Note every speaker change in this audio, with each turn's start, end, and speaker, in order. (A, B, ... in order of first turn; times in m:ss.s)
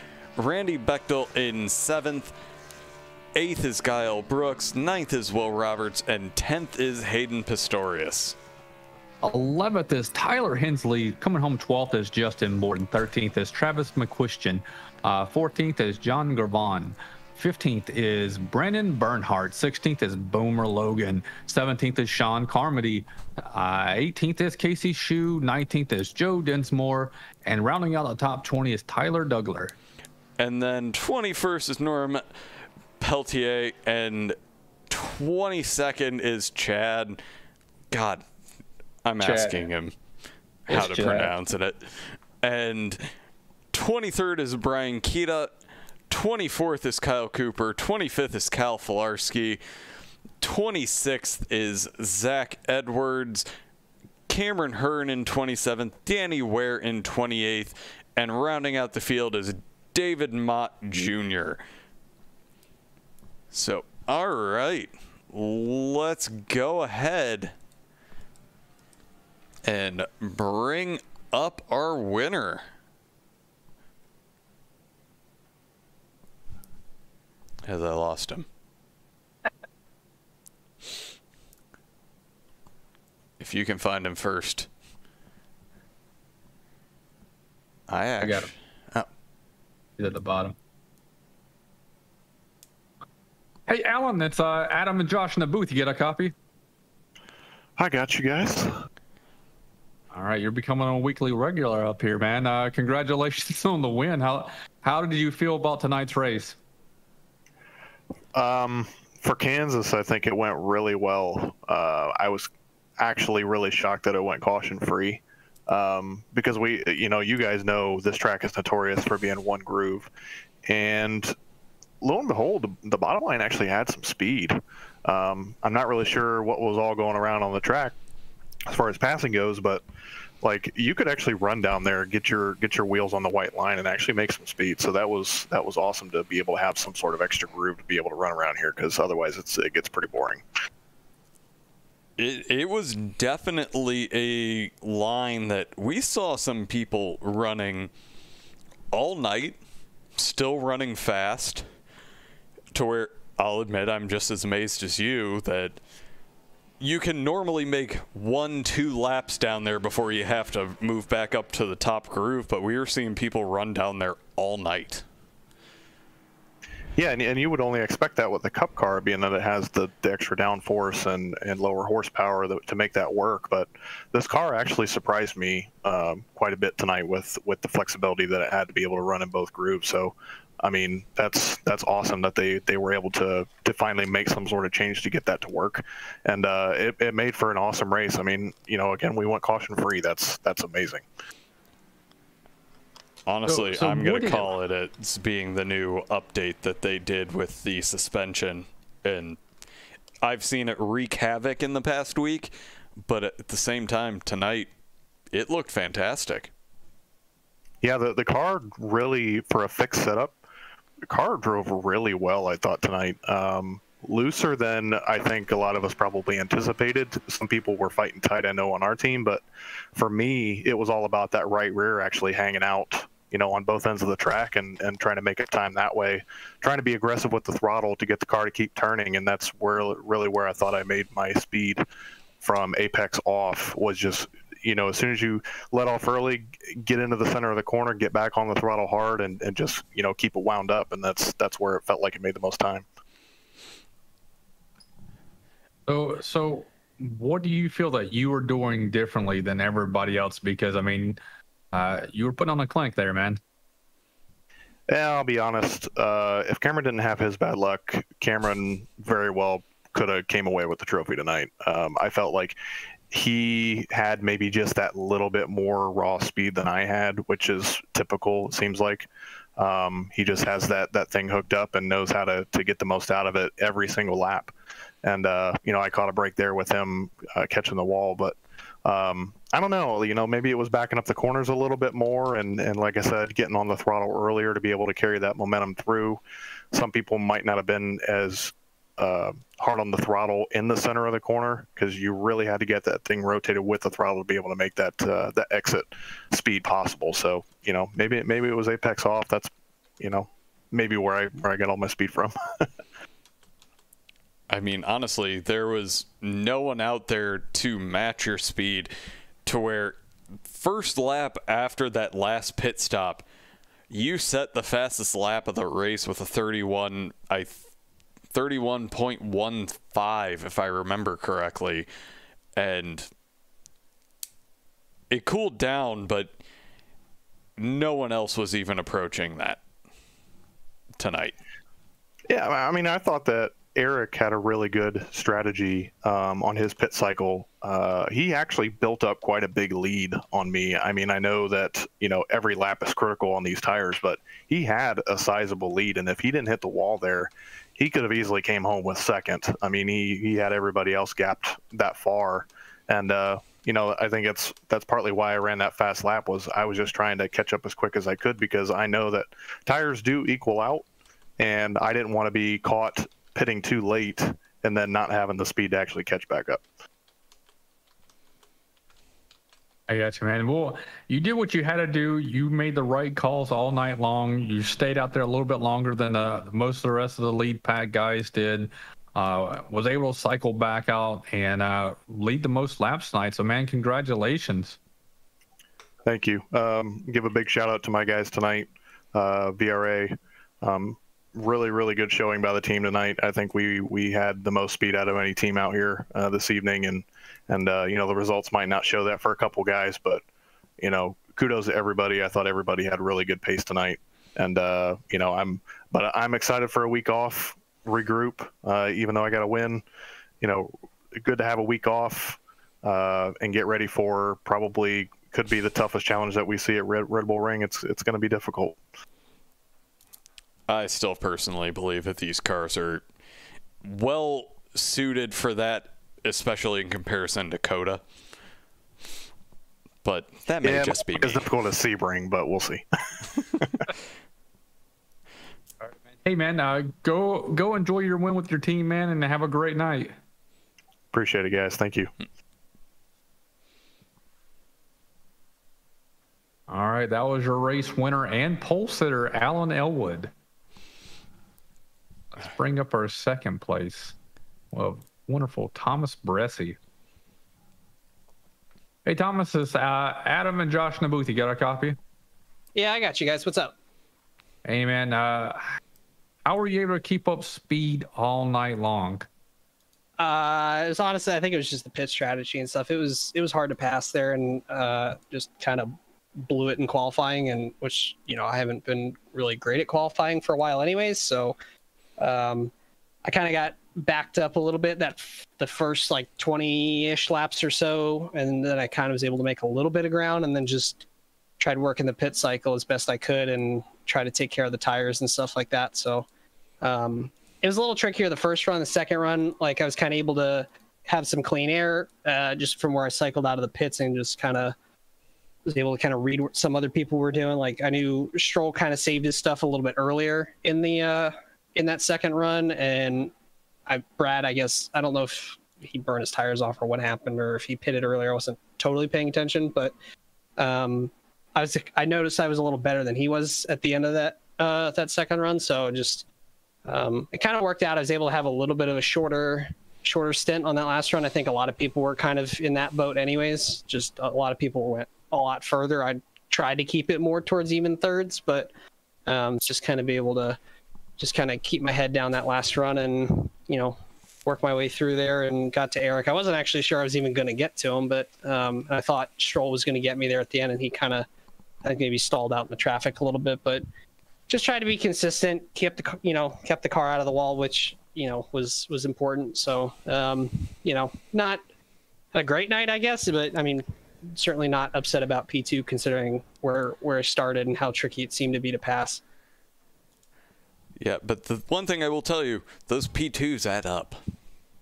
0:00.4-0:02.3 A
0:03.3-0:08.4 A
0:09.2-0:29.7 B
0:30.4-0:32.2 A
0:33.0-0:34.4 A
0:34.9-0:37.2 A
0:37.9-0:38.2 A
0:39.0-0:40.0 A
0:39.2-0:39.6 B
0:40.7-0:41.3 B
0:40.7-0:43.1 A
0:43.7-0:45.5 A
0:46.1-0:49.6 A
0:50.4-0:53.4 A
0:54.3-1:01.6 A
1:03.5-1:07.6 A
1:09.6-1:12.6 A
1:17.6-1:18.5 A
1:23.4-1:24.7 A
1:27.9-1:29.1 A
1:28.2-1:28.5 B
1:30.0-1:30.6 B
1:33.7-1:36.3 B
1:37.8-1:38.7 C
1:40.1-1:46.6 B
1:48.3-2:00.1 C
2:00.7-2:01.3 C
2:02.0-2:08.0 C
2:08.7-2:09.8 C
2:10.4-2:20.4 C
2:22.2-2:27.9 A
2:28.9-2:29.6 A
2:30.2-2:31.6 A
2:32.7-2:35.8 A
2:36.8-2:45.0 A
2:47.0-3:11.0 C
3:13.2-3:19.4 A
3:13.5-3:14.5 B
3:20.2-3:24.7 A
3:25.3-3:26.5 A
3:27.8-3:30.4 C
3:31.1-3:39.4 C
3:40.0-3:51.8 C
3:52.4-4:02.8 C
4:05.9-4:11.2 B
4:11.7-4:13.4 B
4:14.9-4:22.6 C
4:23.1-4:46.2 C
4:46.7-5:02.6 C
5:04.5-5:08.9 A
5:09.4-5:13.2 A
5:13.9-5:17.6 A
5:18.3-5:21.9 A
5:22.6-5:23.1 A
5:25.1-5:26.3 A
5:27.6-5:29.6 A
5:31.0-5:31.4 A
5:32.3-6:00.8 C
6:01.4-6:06.6 C
6:09.9-6:24.8 B
6:26.0-6:40.2 C
6:40.8-6:49.8 C
6:50.4-6:58.8 C
7:00.7-7:03.0 A
7:03.8-7:08.0 A
7:10.0-7:11.5 A
7:10.6-7:12.8 C
7:15.8-7:20.1 B
7:21.1-7:22.1 C
7:26.7-7:30.3 B
7:32.3-7:34.2 B
7:34.7-7:36.8 B
7:39.0-7:42.0 B
7:42.7-7:43.7 D
7:44.6-7:45.8 B
7:46.4-7:49.2 B
7:50.2-8:01.6 D
8:02.2-8:02.7 D
8:03.2-8:11.0 D
8:11.6-8:16.2 D
8:16.8-8:24.7 D
8:25.6-8:33.3 D
8:33.8-8:39.9 D
8:40.6-8:46.2 D
8:46.8-8:58.7 D
8:59.2-9:00.6 D
9:01.2-9:11.3 D
9:11.8-9:13.8 D
9:14.5-9:21.6 D
9:22.3-9:29.2 D
9:31.0-9:34.2 A